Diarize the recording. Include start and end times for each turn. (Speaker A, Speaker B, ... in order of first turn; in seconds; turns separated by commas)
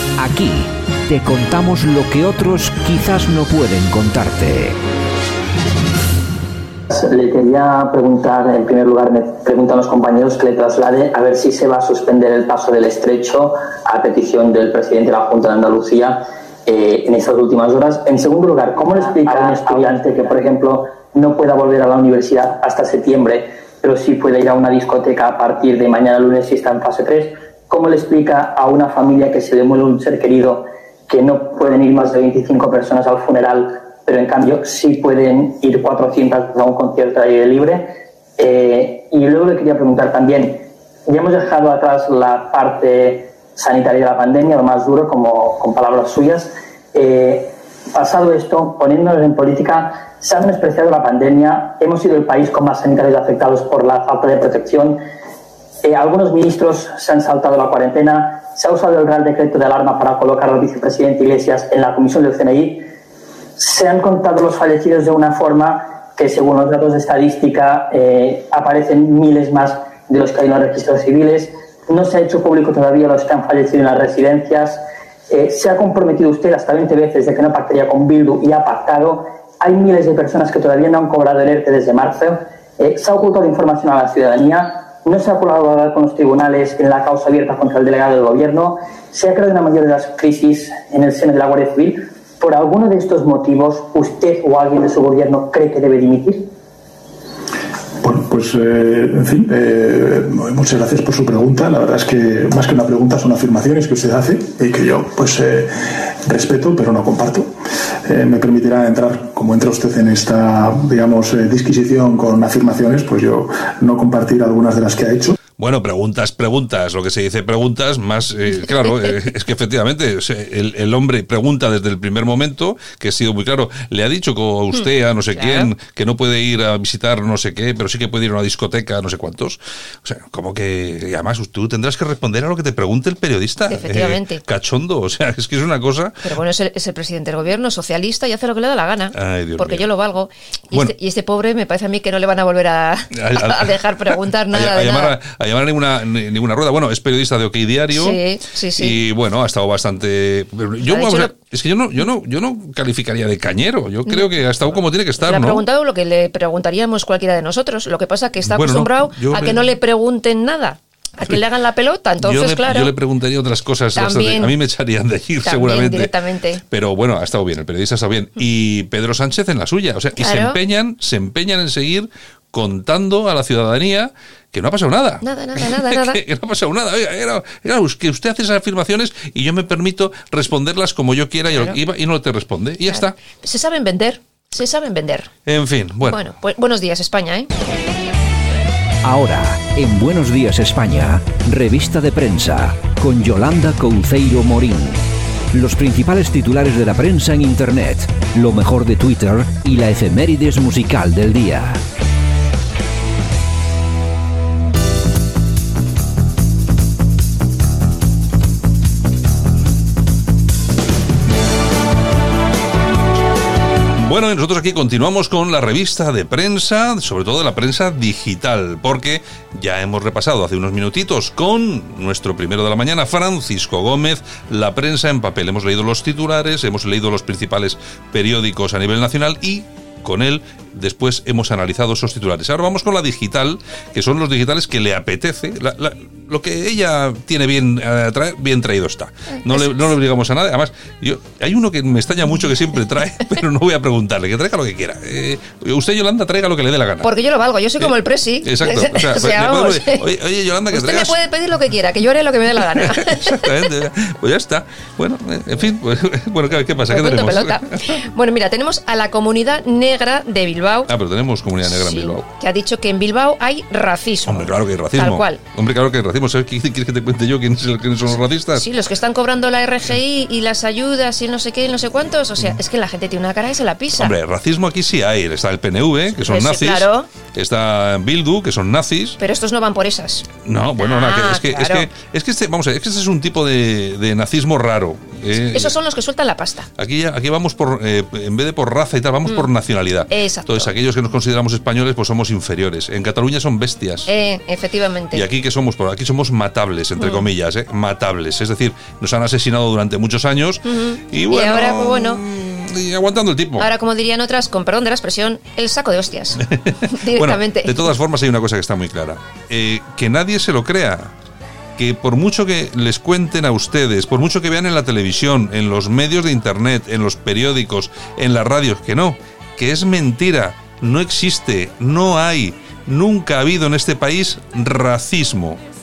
Speaker A: 0.2-4.8, Speaker B: 6.9-37.9, Speaker B: 38.4-55.0, Speaker B: 55.8-62.8, Speaker B: 63.6-96.4, Speaker C: 98.0-107.5, Speaker C: 108.0-115.3, Speaker D: 115.6-136.3, Speaker E: 125.3-125.7, Speaker E: 133.7-134.4, Speaker E: 136.2-145.2, Speaker D: 139.1-139.9, Speaker D: 143.1-143.8, Speaker D: 144.5-148.2, Speaker E: 147.9-149.0, Speaker D: 148.8-155.6, Speaker E: 150.9-151.3, Speaker E: 155.2-162.9, Speaker D: 158.4-159.7, Speaker D: 162.2-166.1, Speaker E: 163.9-164.6, Speaker E: 165.4-166.6, Speaker D: 166.7-183.1, Speaker E: 170.2-170.6, Speaker E: 175.2-176.2, Speaker E: 181.5-181.8, Speaker E: 182.9-185.3, Speaker D: 185.4-186.2, Speaker E: 186.1-187.5, Speaker A: 189.0-195.0, Speaker A: 195.5-201.8, Speaker D: 213.9-247.1, Speaker E: 247.0-250.1, Speaker D: 248.4-251.2, Speaker E: 250.7-253.7, Speaker D: 252.6-258.0, Speaker E: 256.9-260.9, Speaker D: 260.9-262.3, Speaker E: 261.6-265.4, Speaker D: 264.3-268.6, Speaker E: 268.6-274.1, Speaker D: 273.9-279.2, Speaker E: 276.1-277.1, Speaker E: 279.2-281.9, Speaker D: 280.4-285.7, Speaker E: 285.4-286.7, Speaker D: 286.8-294.1, Speaker E: 290.1-290.7, Speaker E: 294.1-295.2, Speaker D: 295.1-303.7, Speaker E: 297.0-297.2, Speaker E: 300.6-302.2, Speaker E: 303.6-307.9, Speaker D: 306.4-311.1, Speaker D: 311.8-325.6